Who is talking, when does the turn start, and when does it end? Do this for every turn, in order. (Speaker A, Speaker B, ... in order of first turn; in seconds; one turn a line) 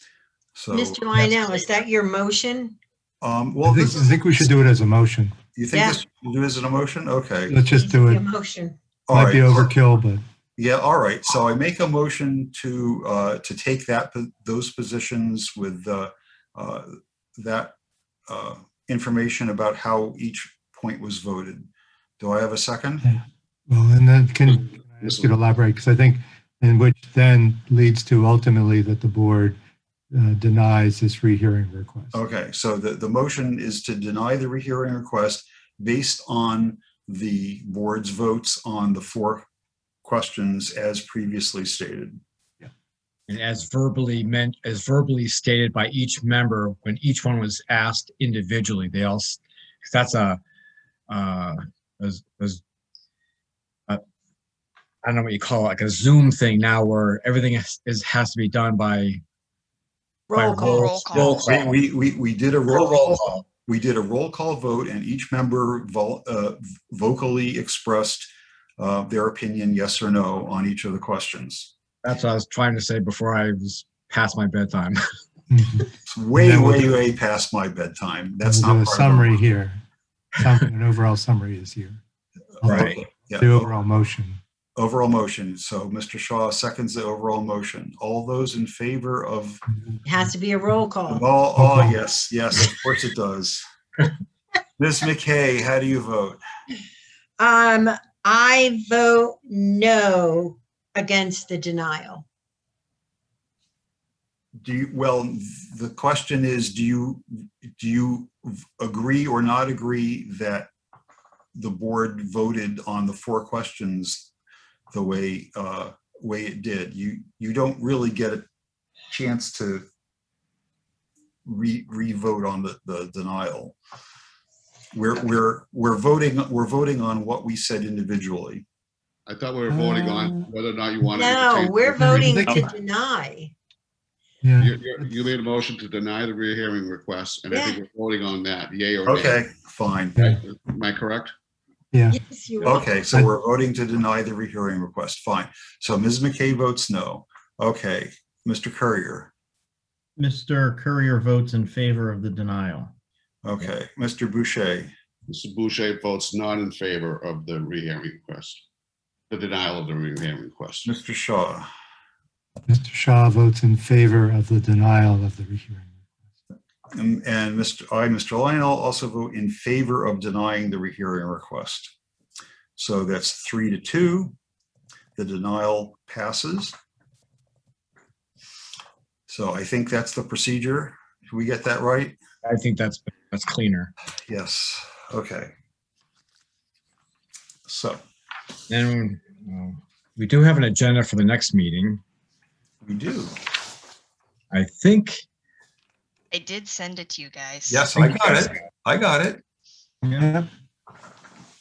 Speaker A: 0.6-1.0
Speaker B: 0.7-2.8
Speaker A: 3.2-4.5
Speaker C: 3.6-5.4
Speaker A: 5.5-7.6
Speaker B: 5.7-6.0
Speaker C: 7.5-8.2
Speaker B: 7.7-8.8
Speaker A: 9.1-9.7
Speaker C: 9.1-10.2
Speaker A: 10.6-17.8
Speaker A: 18.3-21.7
Speaker A: 22.2-23.1
Speaker C: 23.1-29.6
Speaker D: 25.0-25.4
Speaker C: 30.1-32.2
Speaker A: 32.1-39.5
Speaker A: 40.0-42.2
Speaker E: 43.3-50.4
Speaker E: 51.1-52.6
Speaker E: 55.0-59.2
Speaker B: 60.3-61.0
Speaker E: 60.3-61.8
Speaker F: 60.4-61.4
Speaker A: 61.5-71.7
Speaker E: 62.7-63.5
Speaker E: 72.0-75.0
Speaker C: 75.5-76.9
Speaker A: 76.1-79.4
Speaker C: 78.4-79.8
Speaker C: 80.4-82.0
Speaker A: 82.6-83.7
Speaker C: 82.6-84.4
Speaker E: 82.7-83.0
Speaker A: 84.8-89.6
Speaker C: 89.9-90.3
Speaker B: 90.1-91.2
Speaker A: 91.1-93.6
Speaker C: 91.6-92.0
Speaker A: 94.8-96.4
Speaker B: 97.4-102.2
Speaker A: 104.6-110.7
Speaker A: 111.5-114.3
Speaker A: 114.9-118.5
Speaker A: 119.1-119.9
Speaker A: 121.5-123.8
Speaker A: 124.9-128.7
Speaker D: 129.3-132.4
Speaker C: 129.7-130.4
Speaker B: 131.1-133.5
Speaker C: 132.0-132.7
Speaker C: 134.4-134.7
Speaker D: 134.6-139.4
Speaker B: 137.5-137.8
Speaker A: 139.1-140.2
Speaker D: 140.2-141.3
Speaker C: 141.9-142.2
Speaker B: 142.1-142.9
Speaker A: 142.6-149.3
Speaker G: 150.2-152.9
Speaker A: 153.4-154.9
Speaker D: 155.3-158.6
Speaker D: 159.3-160.9
Speaker A: 160.8-161.7
Speaker C: 162.7-166.0
Speaker A: 166.9-171.9
Speaker A: 172.8-174.3
Speaker A: 175.2-176.8
Speaker A: 179.3-182.2
Speaker E: 182.4-183.9
Speaker A: 184.3-185.5
Speaker A: 187.7-188.0
Speaker E: 188.7-192.0
Speaker A: 192.8-193.3
Speaker E: 194.5-195.2
Speaker F: 196.3-197.9
Speaker A: 197.7-199.4
Speaker G: 200.0-200.4